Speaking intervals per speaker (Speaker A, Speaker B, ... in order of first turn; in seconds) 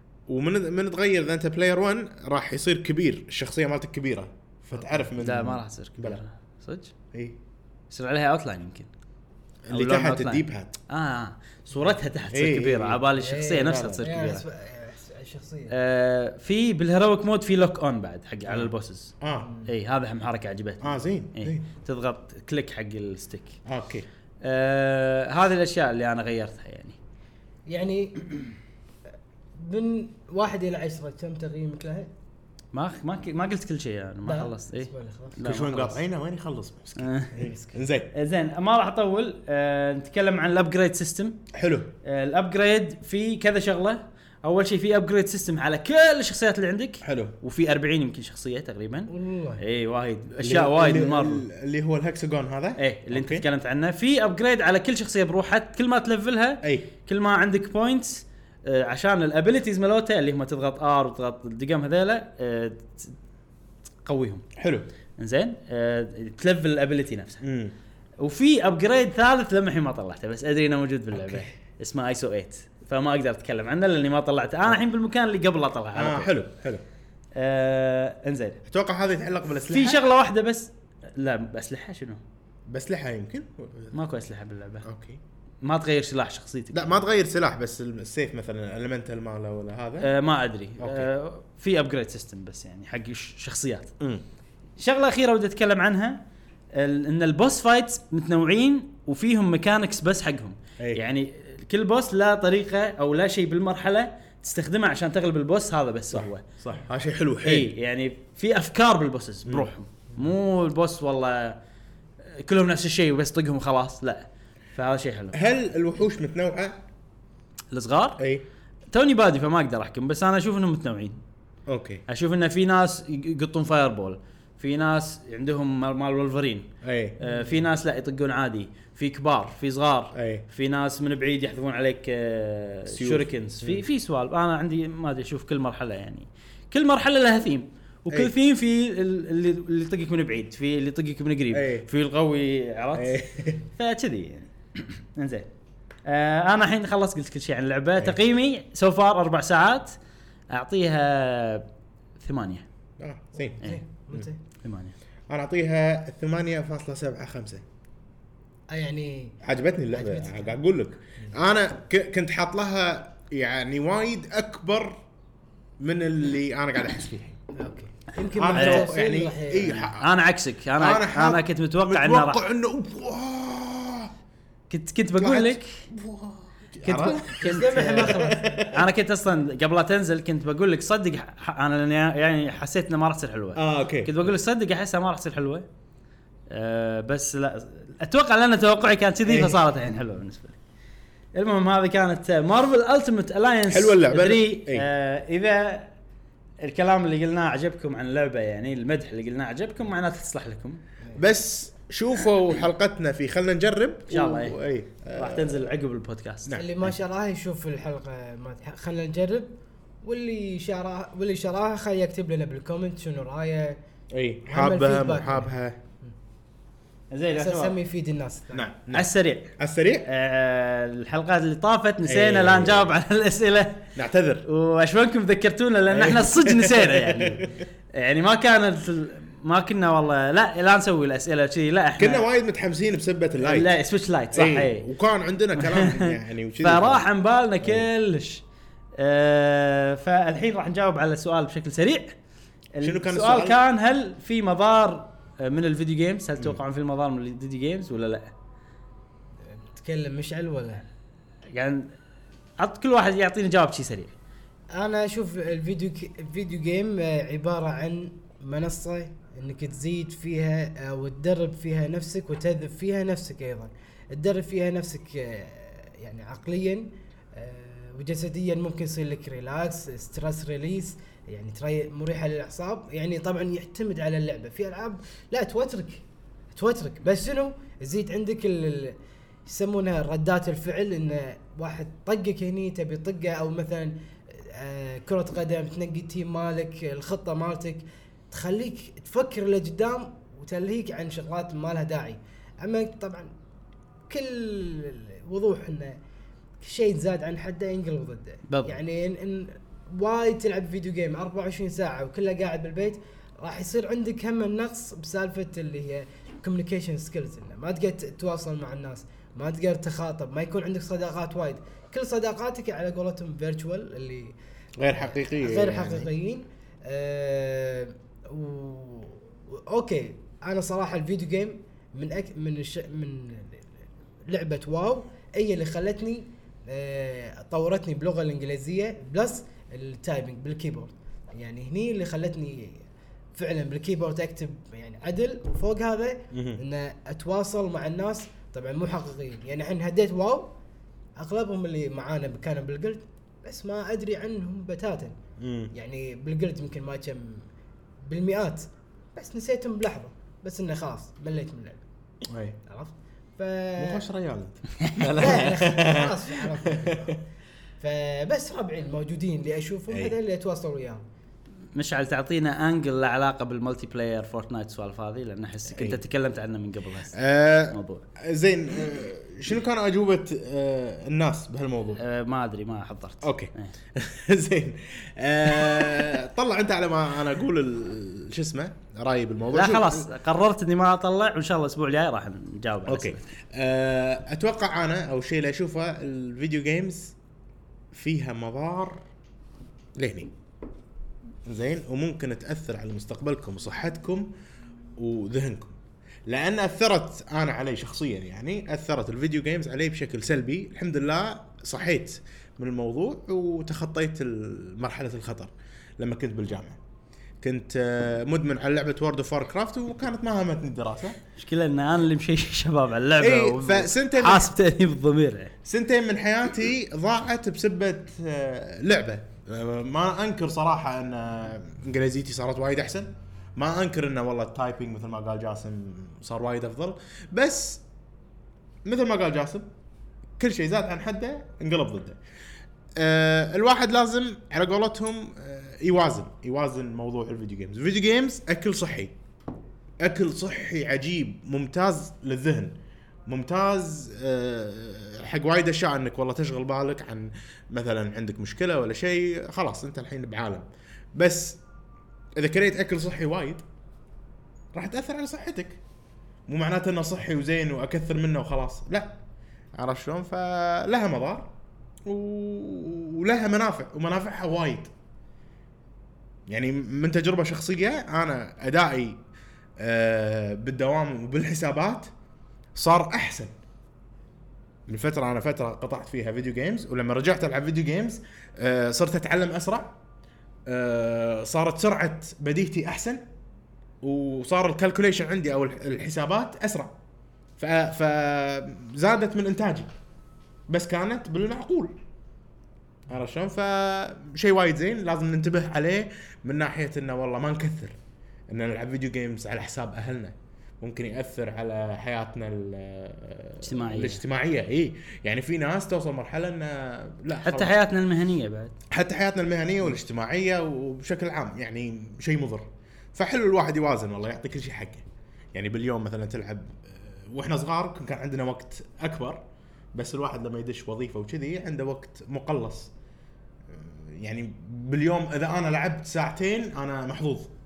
Speaker A: 0.3-6.2, 9.7-10.8, 12.3-13.1, 13.6-14.1, 18.5-19.5, 20.8-21.6, 23.7-24.1, 35.4-38.1, 41.5-41.9, 47.0-47.4, 50.4-53.5, 56.6-56.9, 64.6-64.9, 67.4-67.7, 71.1-71.5, 76.0-76.8, 78.7-80.0, 82.7-84.0, 84.8-85.2, 86.7-90.1, 90.8-91.1, 106.1-107.7, 109.5-109.7, 115.3-116.8, 118.2-118.5, 121.7-122.0, 126.8-127.2, 130.1-130.4, 132.9-133.8, 141.5-141.9, 142.9-143.6, 153.0-153.6, 155.3-157.6, 159.4-165.0, 165.8-167.4, 168.3-170.1, 170.8-174.1, 175.2-178.8, 183.6-184.3, 189.2-189.6, 193.7-194.9, 201.2-205.7, 214.1-215.8, 218.5-220.1, 222.1-223.0, 223.9-224.5, 225.9-227.5, 232.0-233.7, 234.3-237.1, 242.8-243.6, 314.8-316.1, 336.3-336.6, 345.4-345.7, 352.3-352.6, 353.8-357.2, 365.7-366.0, 367.1-372.0, 373.2-380.1, 382.9-387.1, 387.9-389.0, 390.0-390.3, 391.5-394.3, 395.0-395.8, 396.3-406.8, 407.4-411.2, 413.2-414.5, 415.6-427.8, 428.9-429.7, 430.4-432.2, 433.0-439.1, 440.0-442.7, 443.3-450.6, 451.2-451.6, 452.4-453.6, 454.7-455.8, 456.5-459.2, 459.8-461.5, 462.1-464.9, 466.5-469.2, 469.8-472.1, 472.8-473.5, 474.9-480.0, 480.7-483.2, 484.0-486.9, 487.6-489.9, 490.7-491.9, 493.1-498.0, 498.5-507.7, 508.9-519.4, 519.9-522.9, 523.7-527.5
Speaker B: 4.8-5.1, 13.2-15.7, 19.3-19.7, 27.7-28.4, 29.6-32.1, 34.2-35.5, 37.3-37.8, 49.1-49.6, 127.2-127.6, 153.4-154.4, 158.7-159.4, 159.9-160.6, 167.6-169.9, 177.3-178.5, 206.5-209.5, 210.0-213.8, 214.5-215.5, 217.3-218.7, 249.4-250.9, 254.7-293.3, 294.1-296.0, 296.6-314.4, 315.0-323.7, 324.3-332.8, 333.4-340.5, 341.2-345.1, 345.7-347.4, 348.1-351.8, 352.7-354.1, 355.1-357.2, 357.8-361.0
Speaker C: 5.2-6.9, 7.9-8.9, 9.7-14.4, 15.7-19.1, 19.7-23.6, 24.4-27.0, 32.7-36.0, 37.0-37.3, 38.1-41.4, 42.0-51.5, 52.8-63.1, 64.0-64.5, 65.2-67.4, 68.2-76.3, 77.4-78.6, 79.6-82.2, 83.9-84.9, 85.6-87.0, 90.0-93.9, 94.8-96.2, 96.7-106.5, 107.4-111.6, 112.2-115.4, 117.7-118.2, 118.9-121.2, 122.1-143.2, 143.7-145.5, 146.1-150.0, 150.5-151.7, 152.2-152.7, 154.6-154.9, 168.6-168.9, 170.0-172.4, 174.7-175.7, 176.8-185.7, 186.5-190.6, 191.3-195.9, 196.6-200.8, 204.1-204.6, 205.2-206.6, 217.1-217.8, 218.9-219.5, 220.1-223.9, 224.4-232.3, 233.4-234.9, 235.6-238.4, 239.0-242.2, 242.8-248.3, 251.5-251.9, 252.6-254.1, 298.5-298.8, 361.8-367.2, 367.7-368.0, 372.0-373.7, 379.5-383.3, 411.4-415.6, 503.6-504.2, 507.4-508.8